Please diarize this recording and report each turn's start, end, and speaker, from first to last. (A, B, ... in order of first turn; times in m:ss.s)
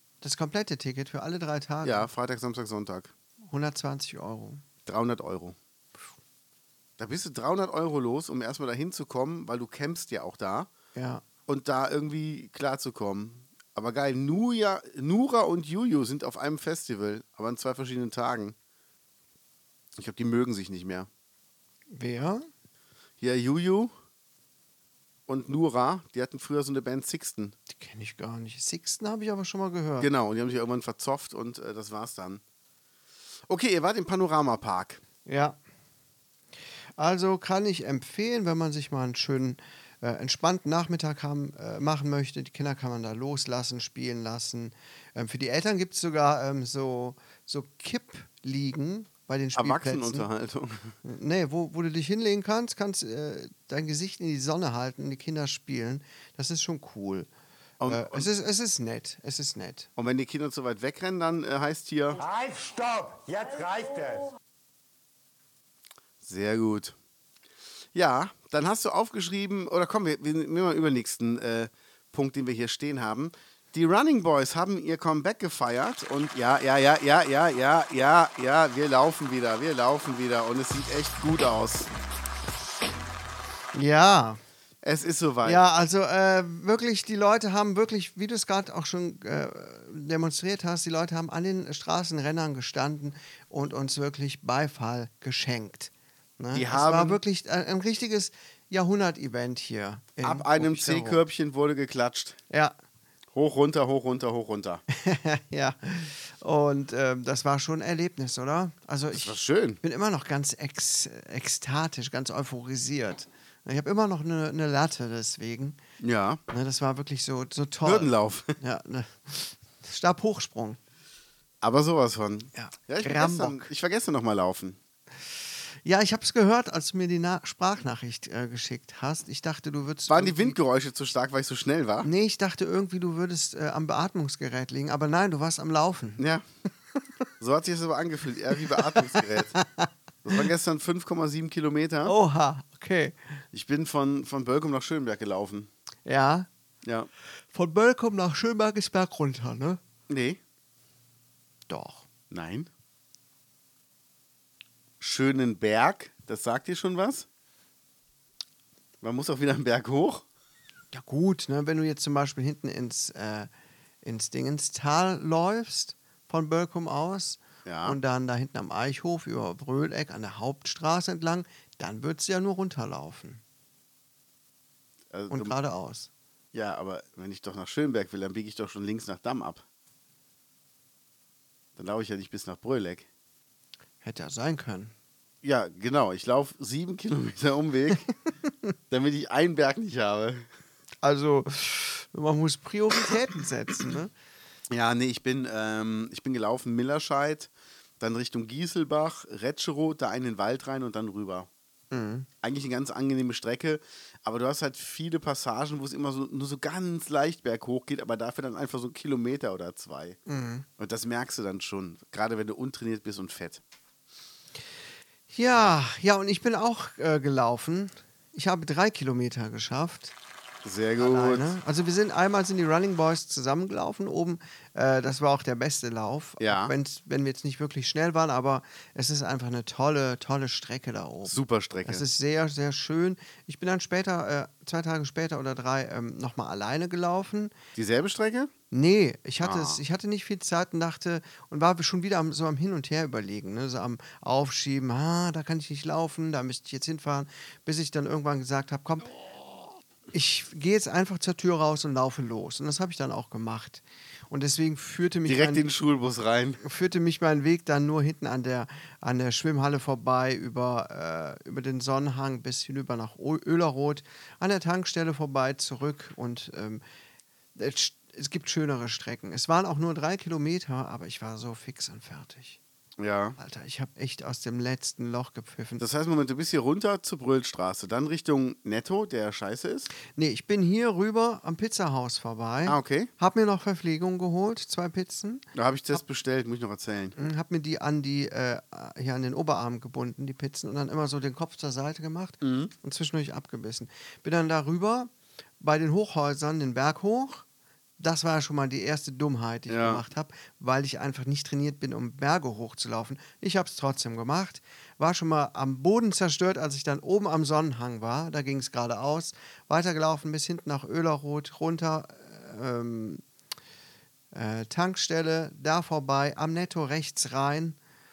0:00.2-0:02.1 A
0:01.8-0:03.1 B
0:03.5-0:04.6 A
0:04.8-0:05.6 B
0:07.0-0:10.7 B
0:10.9-0:11.2 A
0:11.5-0:18.5 B
0:20.0-0:21.1 B
0:21.9-0:22.5 A
0:23.2-0:23.9 B
0:25.3-0:27.5 B
0:27.7-0:30.1 A
0:30.0-0:32.4 B
0:33.5-0:35.0 B
0:35.2-0:35.6 A
0:37.0-0:50.3 A
0:49.5-0:50.9 B
0:51.0-0:57.3 A
0:57.8-0:58.3 B
0:57.9-0:59.9 A
1:00.0-1:02.2 B
1:02.2-1:04.3 C
1:06.2-1:07.0 B
1:07.9-1:21.9 B
1:23.7-1:24.4 A
1:24.8-1:25.6 B
1:25.4-1:41.2 A
1:36.5-1:37.2 B
1:40.2-1:42.4 B
1:42.5-1:42.7 A
1:43.3-1:44.8 B
1:44.9-1:55.8 A
1:49.1-1:49.8 B
1:56.0-1:56.4 B
1:56.5-2:00.8 A
1:57.8-1:58.6 B
2:01.6-2:04.8 B
2:02.5-2:03.7 A
2:05.8-2:10.6 A
2:10.1-2:12.1 B
2:12.0-2:16.2 A
2:16.2-2:16.4 B
2:17.4-2:19.6 B
2:19.0-2:19.9 A
2:20.2-2:22.1 B
2:22.0-2:23.2 A
2:23.5-2:25.7 B
2:26.0-2:26.5 A
2:26.8-2:27.1 B
2:27.5-2:29.8 A
2:30.1-2:30.4 B
2:31.7-2:32.0 A
2:32.3-2:32.7 B
2:35.0-2:37.3 B
2:39.0-2:40.2 B
2:40.9-2:43.5 A
2:44.0-2:53.4 A
2:47.6-2:48.0 B
2:55.1-2:55.5 B
2:55.3-2:56.1 A
2:56.5-2:59.6 B
3:01.8-3:03.0 B
3:04.0-3:04.9 A
3:05.4-3:08.1 B
3:08.9-3:10.4 B
3:11.0-3:14.1 A
3:14.7-3:21.5 B
3:21.9-3:22.3 A
3:22.4-3:30.2 B
3:30.3-3:30.6 A
3:30.8-3:33.6 B
3:35.3-3:40.1 A
3:40.6-3:41.5 B
3:41.0-3:57.5 A
3:46.4-3:46.7 B
3:51.2-3:52.0 B
3:57.8-3:58.5 B
3:58.7-4:09.2 A
3:59.4-3:59.8 B
4:10.1-4:15.6 A
4:15.2-4:16.6 B
4:16.6-4:26.8 A
4:27.6-4:32.6 A
4:33.0-4:33.4 B
4:33.4-4:35.8 A
4:35.8-4:39.9 B
4:40.1-4:46.0 A
4:42.6-4:43.1 B
4:45.5-4:47.1 B
4:47.2-4:57.4 A
4:52.4-4:52.7 B
4:58.0-5:13.2 A
4:59.7-5:00.0 B
5:14.3-5:17.8 A